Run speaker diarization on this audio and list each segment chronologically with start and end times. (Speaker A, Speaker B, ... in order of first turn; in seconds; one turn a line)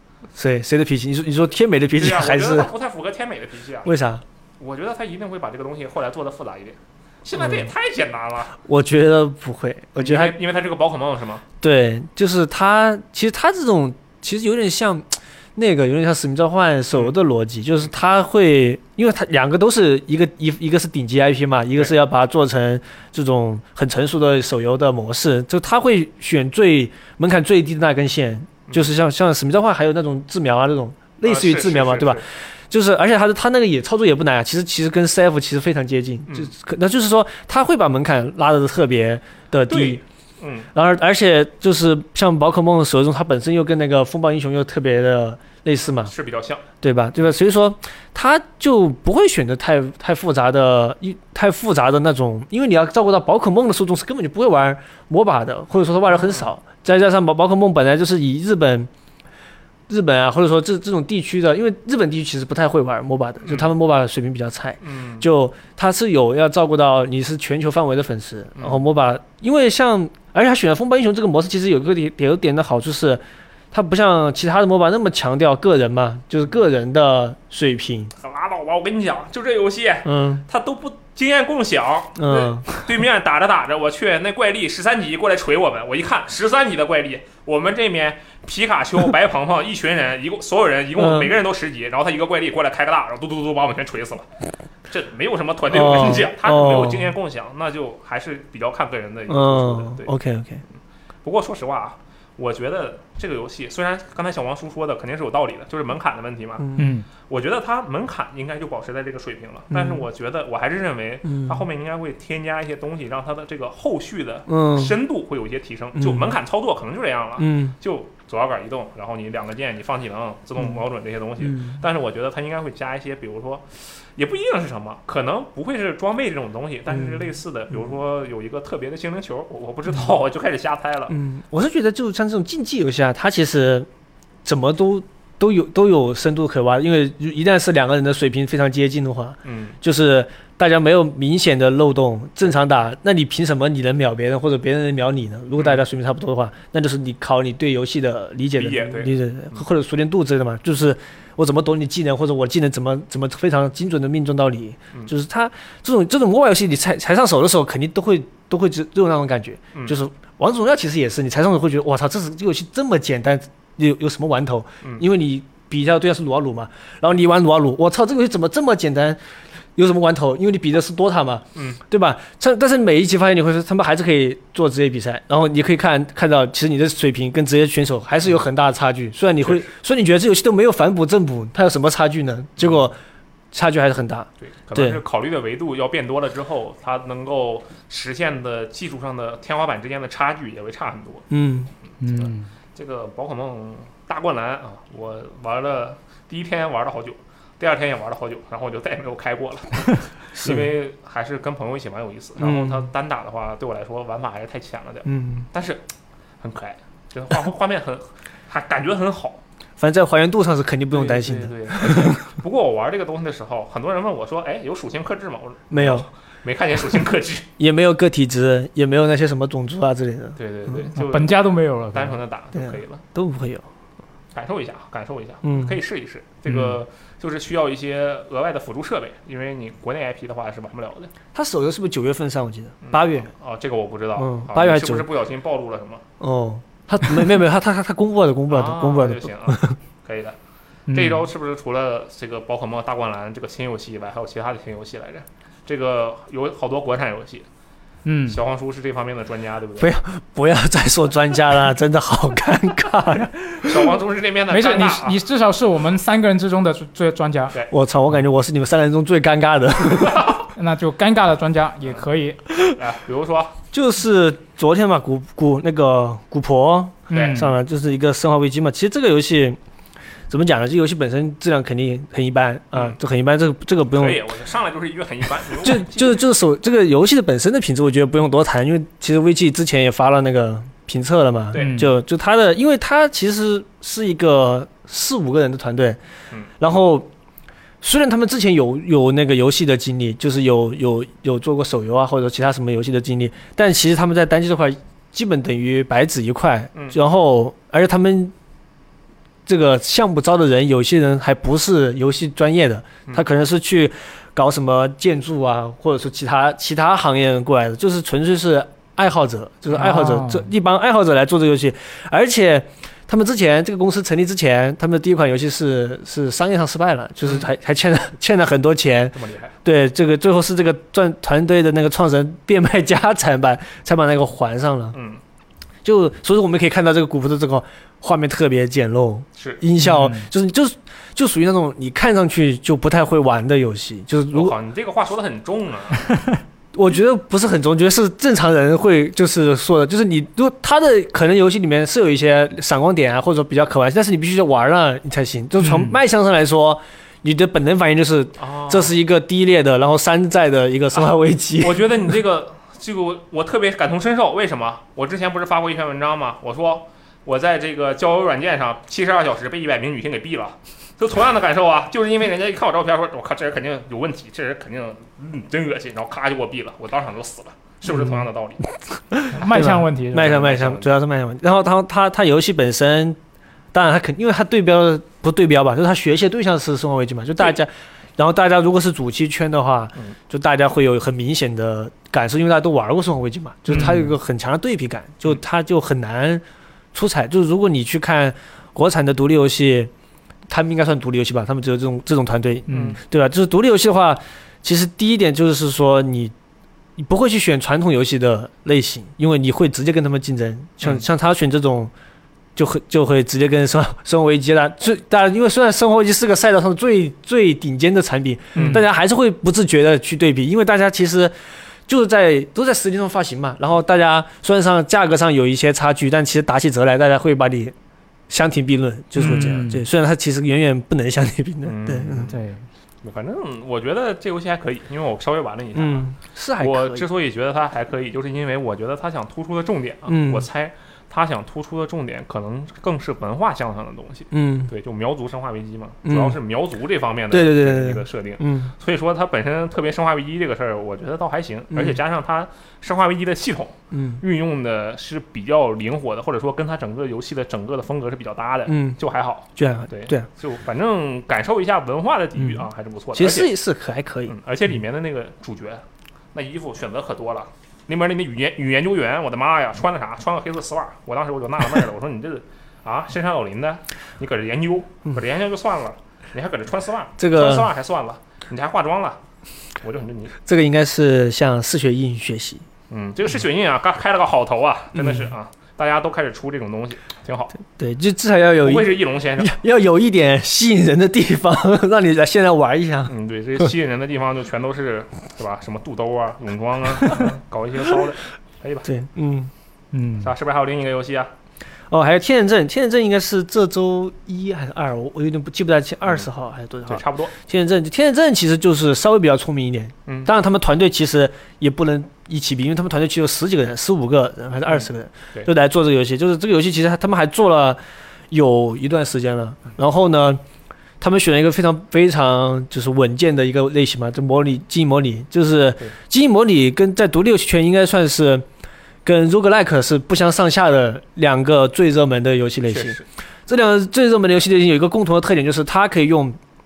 Speaker A: 0.3-2.7
Speaker B: 1.9-3.9
Speaker A: 3.8-4.2
Speaker B: 4.6-8.6
Speaker A: 7.3-7.7
Speaker A: 8.6-10.4
Speaker B: 9.9-11.4
Speaker A: 11.6-40.0
Speaker B: 31.2-32.2
Speaker B: 39.7-40.7
Speaker A: 40.7-46.1
Speaker B: 46.0-46.6
Speaker A: 46.8-58.9
Speaker B: 56.1-56.5
Speaker A: 59.9-78.1
Speaker B: 63.4-63.7
Speaker B: 64.8-65.3
Speaker B: 68.6-68.8
Speaker B: 78.2-94.3
Speaker A: 80.0-80.4
Speaker A: 82.2-82.7
Speaker A: 91.0-91.3
Speaker B: 94.9-100.1
Speaker A: 95.7-97.1
Speaker A: 99.3-100.6
Speaker B: 101.2-131.2
Speaker A: 106.6-106.9
Speaker C: 106.8-107.1
Speaker A: 109.7-110.1
Speaker A: 111.2-111.6
Speaker A: 114.5-115.0
Speaker A: 116.0-116.3
Speaker A: 117.4-117.7
Speaker A: 121.4-121.8
Speaker A: 126.9-127.2
Speaker A: 131.1-133.9
Speaker A: 134.4-169.2
Speaker B: 139.4-139.8
Speaker B: 148.6-149.1
Speaker A: 169.8-183.0
Speaker B: 171.5-171.8
Speaker B: 179.4-179.7
Speaker A: 183.5-185.0
Speaker B: 184.4-191.2
Speaker A: 191.3-191.7
Speaker C: 192.0-192.5
Speaker B: 192.1-205.8
Speaker A: 200.3-200.7
Speaker A: 202.4-202.9
Speaker A: 205.0-205.5
Speaker B: 206.4-209.4
Speaker A: 209.8-212.2
Speaker B: 210.9-217.5
Speaker A: 215.7-216.1
Speaker A: 217.6-220.9
Speaker B: 220.4-221.4
Speaker C: 220.9-222.2
Speaker B: 221.9-223.0
Speaker A: 222.5-223.7
Speaker B: 224.3-231.1
Speaker A: 225.4-225.8
Speaker A: 231.3-233.3
Speaker B: 232.8-236.0
Speaker A: 234.2-235.1
Speaker A: 236.2-239.8
Speaker B: 238.5-240.4
Speaker C: 240.9-241.3
Speaker B: 240.9-247.4
Speaker C: 248.0-248.4
Speaker B: 248.3-249.9
Speaker A: 249.8-253.9
Speaker B: 253.5-255.2
Speaker C: 254.5-257.5
Speaker A: 257.7-260.4
Speaker B: 260.1-260.4
Speaker C: 260.5-262.4
Speaker B: 262.6-263.6
Speaker A: 263.7-269.6
Speaker C: 267.1-267.5
Speaker B: 267.1-267.4
Speaker A: 270.3-274.2
Speaker B: 273.9-276.2
Speaker A: 275.6-286.0
Speaker C: 281.5-281.9
Speaker A: 286.6-287.1
Speaker A: 287.8-298.3
Speaker A: 299.4-325.0
Speaker C: 309.7-310.5
Speaker B: 319.1-319.5
Speaker B: 324.9-325.2
Speaker A: 325.8-334.6
Speaker B: 329.4-329.6
Speaker C: 329.8-330.3
Speaker B: 334.3-336.1
Speaker A: 336.7-351.9
Speaker C: 345.6-346.0
Speaker B: 348.4-348.9
Speaker B: 350.9-368.6
Speaker A: 367.9-368.2
Speaker A: 369.1-373.2
Speaker C: 369.3-370.4
Speaker B: 370.1-370.9
Speaker A: 373.7-389.9
Speaker C: 383.7-384.1
Speaker B: 383.7-384.0
Speaker A: 390.5-396.3
Speaker C: 392.7-393.0
Speaker B: 392.7-393.0
Speaker A: 397.0-401.9
Speaker A: 402.6-411.3
Speaker B: 408.5-408.8
Speaker A: 411.9-417.7
Speaker A: 418.3-422.3
Speaker C: 419.1-419.8
Speaker B: 421.6-422.4
Speaker C: 422.3-422.6
Speaker B: 423.0-426.1
Speaker A: 425.7-427.1
Speaker B: 426.6-453.5
Speaker A: 430.1-430.5
Speaker A: 434.3-434.7
Speaker A: 436.0-436.4
Speaker A: 437.3-438.7
Speaker A: 441.7-442.0
Speaker A: 443.9-444.2
Speaker A: 448.7-449.0
Speaker A: 449.6-450.3
Speaker A: 452.4-454.4
Speaker B: 454.3-455.8
Speaker B: 456.3-469.2
Speaker A: 467.2-467.7
Speaker B: 469.8-470.3
Speaker A: 470.4-472.6
Speaker B: 472.9-477.5
Speaker A: 474.9-475.3
Speaker A: 477.7-483.7
Speaker B: 478.6-479.5
Speaker B: 483.1-488.9
Speaker A: 488.8-489.5
Speaker C: 489.9-490.3
Speaker B: 490.2-491.3
Speaker A: 491.9-507.8
Speaker B: 496.9-497.3
Speaker A: 508.3-510.4
Speaker A: 511.0-518.5
Speaker A: 519.0-526.4
Speaker B: 522.6-523.0